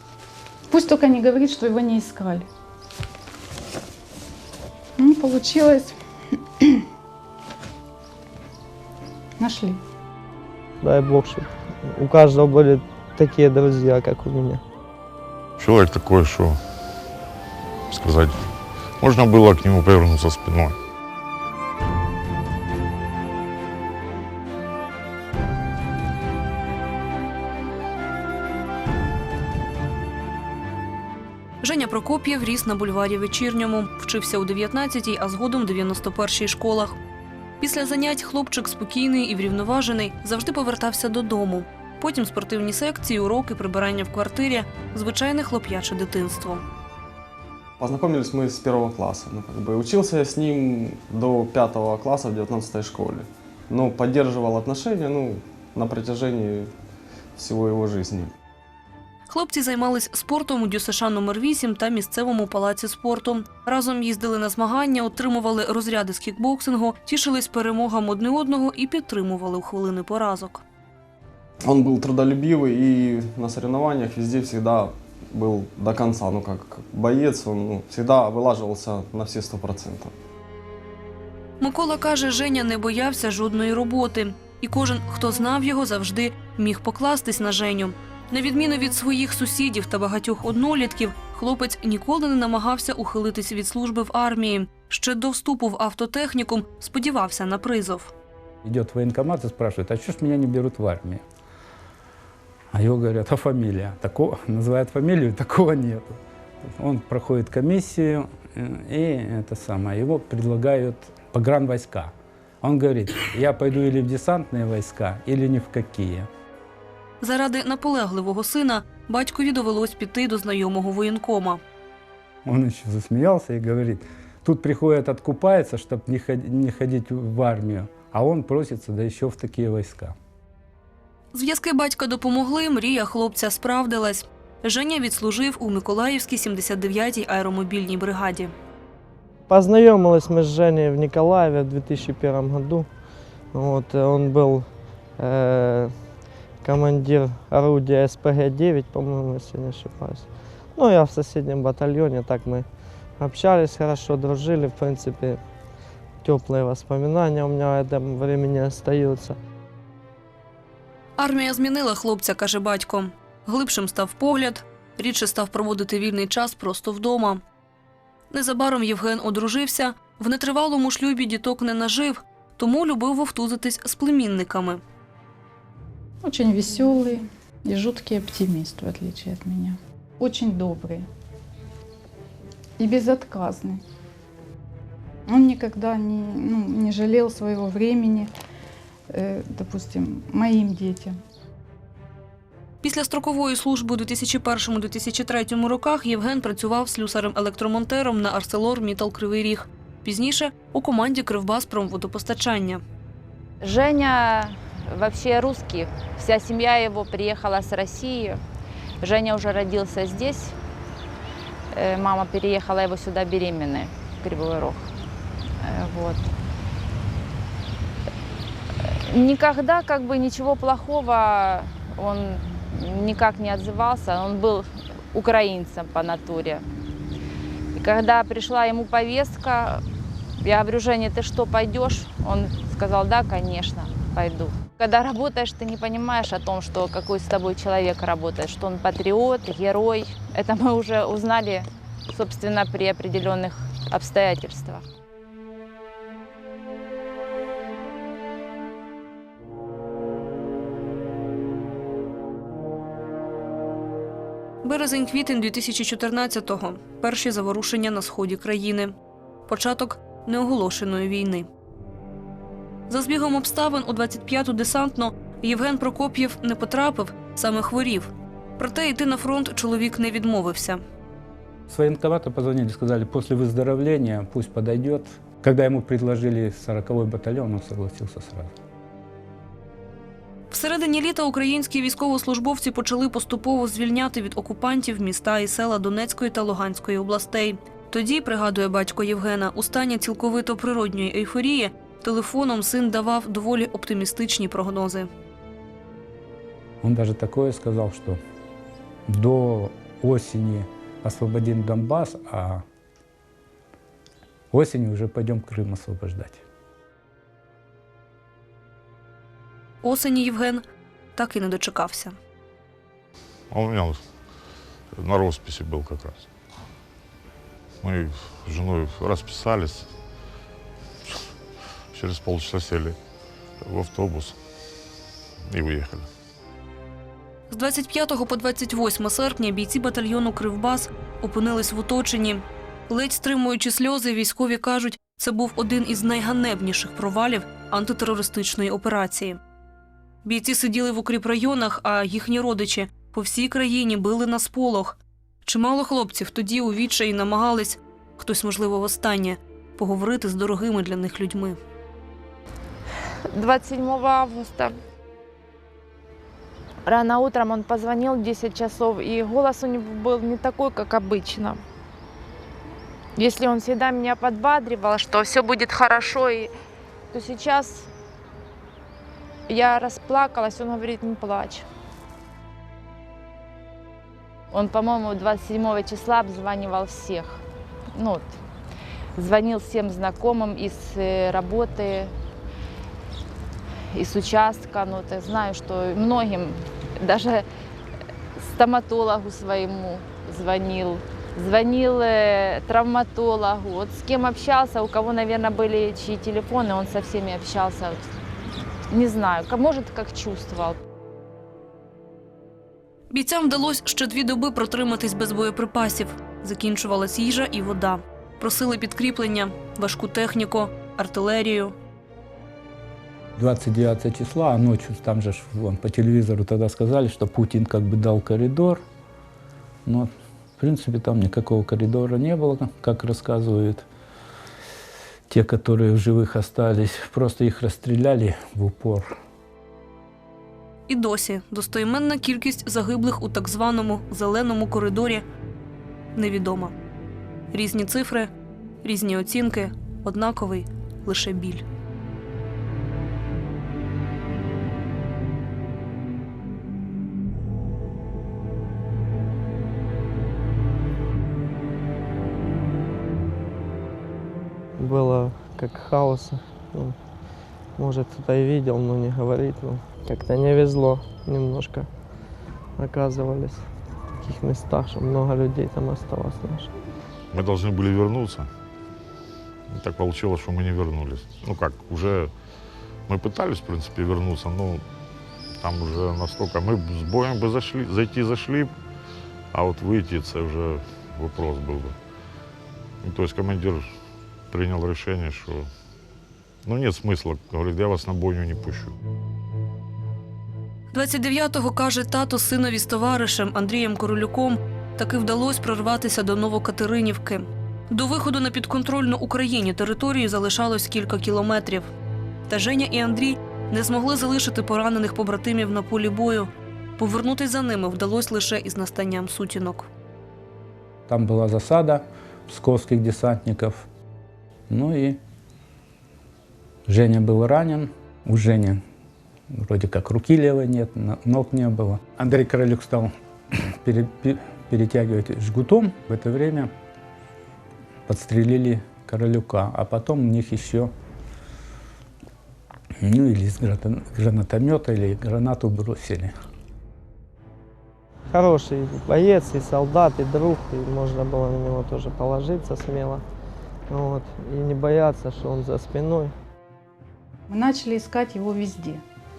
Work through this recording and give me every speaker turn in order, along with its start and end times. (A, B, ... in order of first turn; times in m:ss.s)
0:00.7-0:02.5 A
0:05.0-0:06.0 A
0:09.4-0:09.8 A
0:10.8-0:14.6 B
0:15.6-0:16.6 C
0:17.9-0:18.4 C
0:19.0-0:20.8 C
0:31.6-0:37.0 D
0:37.6-0:46.6 D
0:47.8-0:56.7 E
0:57.4-0:58.3 E
0:59.3-1:10.6 D
1:11.6-1:20.1 E
1:21.6-1:38.1 D
1:38.6-1:41.2 F
1:42.7-1:46.2 F
1:46.8-1:56.3 F
1:57.2-2:01.6 D
2:02.4-2:10.1 F
2:11.3-2:18.5 D
2:19.5-2:22.9 B
2:23.5-2:26.0 B
2:26.6-2:35.4 B
2:36.2-2:39.4 B
2:41.2-2:47.4 D
2:48.3-2:54.8 D
2:56.2-3:01.0 A
3:02.8-3:03.8 A
3:05.3-3:08.3 A
3:09.1-3:11.2 A
3:12.8-3:22.8 D
3:23.6-3:28.4 G
3:29.0-3:30.6 G
3:31.7-3:34.9 G
3:35.6-3:36.2 G
3:38.8-3:46.6 G
3:47.8-3:49.8 G
3:50.4-4:04.9 G
4:14.6-4:19.0 D
4:19.5-4:21.5 D
4:22.9-4:30.8 D
4:31.7-4:38.5 F
4:40.5-4:55.1 D
4:56.8-4:58.2 F
4:59.1-5:02.6 F
5:04.5-5:06.4 F
5:09.8-5:10.6 D
5:11.2-5:12.2 D
5:13.5-5:14.0 C
5:15.0-5:16.3 C
5:17.8-5:19.9 C
5:21.9-5:23.0 C
5:23.6-5:24.4 C
5:25.5-5:26.1 C
5:27.5-5:39.4 D
5:40.2-5:51.6 D
5:53.3-5:54.8 G
5:56.8-6:01.6 G
6:03.2-6:06.5 G
6:07.1-6:07.9 G
6:09.5-6:11.7 G
6:14.5-6:18.4 G
6:19.2-6:22.1 G
6:23.9-6:27.4 G
6:28.4-6:38.0 G
6:38.9-6:40.8 G
6:43.1-6:51.8 D
6:53.4-6:58.8 F
6:59.9-7:03.9 F
7:05.3-7:09.1 F
7:10.9-7:15.2 D
7:16.2-7:16.7 D
7:17.5-7:18.3 D
7:18.8-7:21.6 D
7:34.8-7:37.0 B
7:37.8-7:41.9 B
7:42.8-7:43.7 B
7:44.2-7:46.7 B
7:47.3-7:48.5 C
7:49.7-7:52.3 C
7:53.1-7:54.8 C
7:55.6-7:58.7 C
7:59.5-8:02.0 C
8:03.0-8:03.9 C
8:04.5-8:05.7 C
8:06.6-8:09.0 C
8:10.9-8:21.9 D
8:22.5-8:29.9 D
8:31.1-8:33.9 F
8:34.7-8:35.2 F
8:36.9-8:38.8 F
8:39.5-8:43.1 F
8:43.7-8:46.7 F
8:48.1-8:50.9 F
8:53.0-8:56.3 F
8:58.3-9:03.2 B
9:03.9-9:06.3 B
9:07.5-9:09.0 A